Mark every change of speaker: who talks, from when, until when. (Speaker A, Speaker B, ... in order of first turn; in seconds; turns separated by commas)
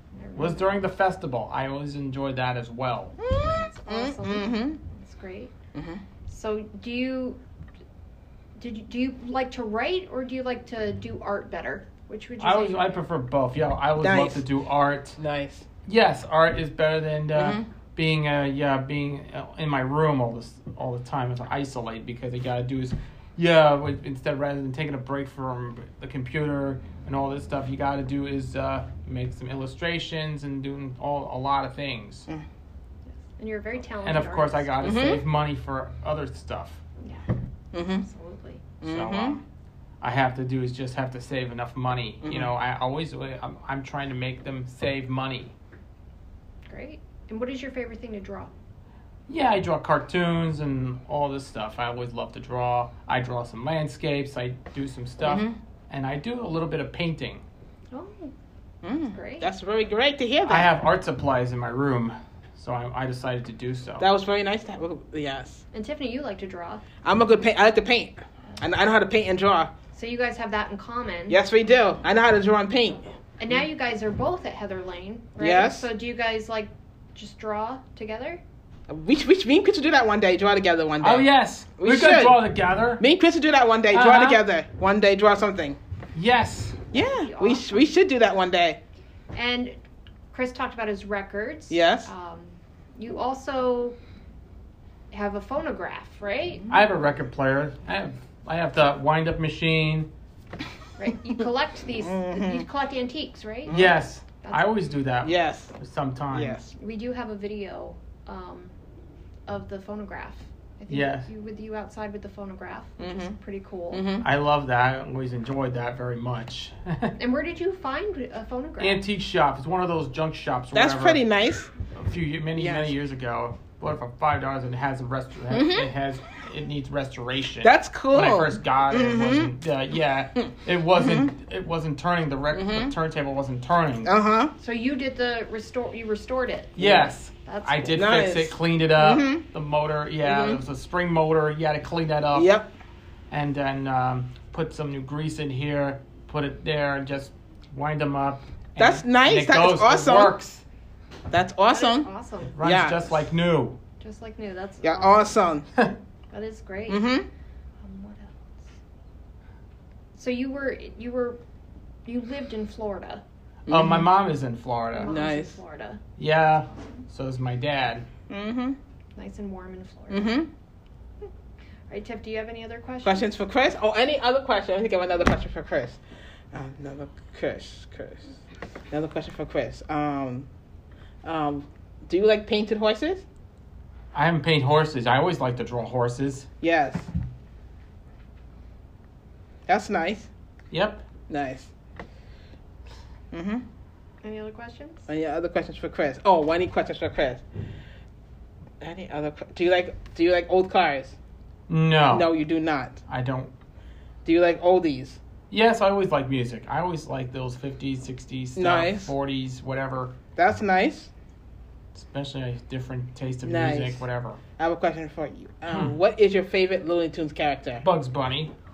Speaker A: 0.1-0.8, Speaker B: 0.3-3.1, Speaker C: 3.2-4.8, Speaker A: 3.4-5.5, Speaker C: 5.7-6.0, Speaker A: 6.3-7.4, Speaker A: 8.6-13.0, Speaker B: 12.4-15.2, Speaker C: 14.0-14.4, Speaker C: 15.2-15.7, Speaker B: 15.8-32.3, Speaker C: 17.3-17.6, Speaker A: 33.1-34.8, Speaker B: 34.0-36.8, Speaker C: 34.8-35.2, Speaker C: 37.7-38.0, Speaker A: 38.0-38.6, Speaker C: 38.8-39.4, Speaker B: 38.8-39.4, Speaker B: 40.0-45.5, Speaker C: 42.2-42.5, Speaker A: 46.7-48.5, Speaker B: 49.3-57.4, Speaker C: 55.2-55.5, Speaker A: 57.9-58.3, Speaker C: 58.8-60.7, Speaker A: 59.0-59.5, Speaker B: 60.4-64.0, Speaker C: 64.0-65.6, Speaker A: 65.7-66.8, Speaker C: 67.0-69.7, Speaker A: 69.9-71.4, Speaker C: 71.3-73.0, Speaker A: 73.4-78.4, Speaker C: 75.4-75.9, Speaker C: 78.9-82.4, Speaker B: 81.0-83.0, Speaker C: 83.0-85.8, Speaker B: 83.9-84.4, Speaker B: 86.1-86.8, Speaker A: 86.9-87.8, Speaker C: 86.9-88.8, Speaker A: 89.3-89.8, Speaker A: 90.3-94.0, Speaker C: 91.7-92.1, Speaker A: 95.1-96.7, Speaker B: 96.7-100.1, Speaker A: 101.0-104.7, Speaker C: 102.0-102.7, Speaker C: 103.7-104.0, Speaker B: 103.7-106.6, Speaker C: 105.2-105.8, Speaker C: 106.3-106.7, Speaker A: 106.7-108.7, Speaker A: 109.5-114.0, Speaker B: 110.9-111.3, Speaker C: 113.0-113.3, Speaker C: 113.9-114.3, Speaker B: 114.2-117.1, Speaker A: 117.2-119.0, Speaker B: 118.8-121.2, Speaker C: 120.7-121.7, Speaker B: 121.9-134.1, Speaker C: 122.5-122.9, Speaker C: 125.5-125.9, Speaker C: 127.6-129.5, Speaker C: 130.9-131.3, Speaker C: 132.5-132.9, Speaker C: 134.0-134.5, Speaker A: 134.6-136.9, Speaker B: 136.8-142.5, Speaker C: 136.8-137.1, Speaker A: 137.4-138.0, Speaker C: 137.9-139.4, Speaker C: 140.2-140.6, Speaker C: 142.3-142.7, Speaker B: 143.3-150.6, Speaker C: 148.8-150.3, Speaker C: 151.3-152.1, Speaker A: 151.7-152.5, Speaker B: 152.5-153.8, Speaker C: 152.6-153.2, Speaker A: 154.0-155.4, Speaker C: 154.8-155.6, Speaker A: 156.3-157.1, Speaker C: 156.9-157.3, Speaker A: 157.8-158.7, Speaker A: 160.1-161.4, Speaker A: 162.1-163.2, Speaker C: 163.7-164.1, Speaker B: 163.7-165.2, Speaker A: 164.9-167.1, Speaker C: 165.1-165.6, Speaker B: 166.2-168.1, Speaker C: 168.3-168.8, Speaker A: 169.2-170.3, Speaker C: 170.1-170.5, Speaker A: 171.9-173.3, Speaker C: 173.0-176.0, Speaker C: 176.5-178.4, Speaker C: 178.9-180.5, Speaker C: 181.2-183.2, Speaker B: 184.1-186.5, Speaker C: 186.6-187.1, Speaker C: 189.7-190.3, Speaker B: 190.7-191.0, Speaker C: 191.3-191.7, Speaker C: 193.3-193.6, Speaker A: 194.2-195.1, Speaker C: 195.1-197.4, Speaker C: 198.8-201.2, Speaker B: 201.7-202.3, Speaker C: 202.1-203.0, Speaker B: 203.1-203.5, Speaker C: 204.2-205.2, Speaker B: 205.5-210.2, Speaker C: 208.6-209.1, Speaker C: 210.3-211.1, Speaker B: 211.9-214.4, Speaker C: 213.4-214.0, Speaker C: 214.6-217.8, Speaker B: 215.7-216.0, Speaker B: 217.8-218.5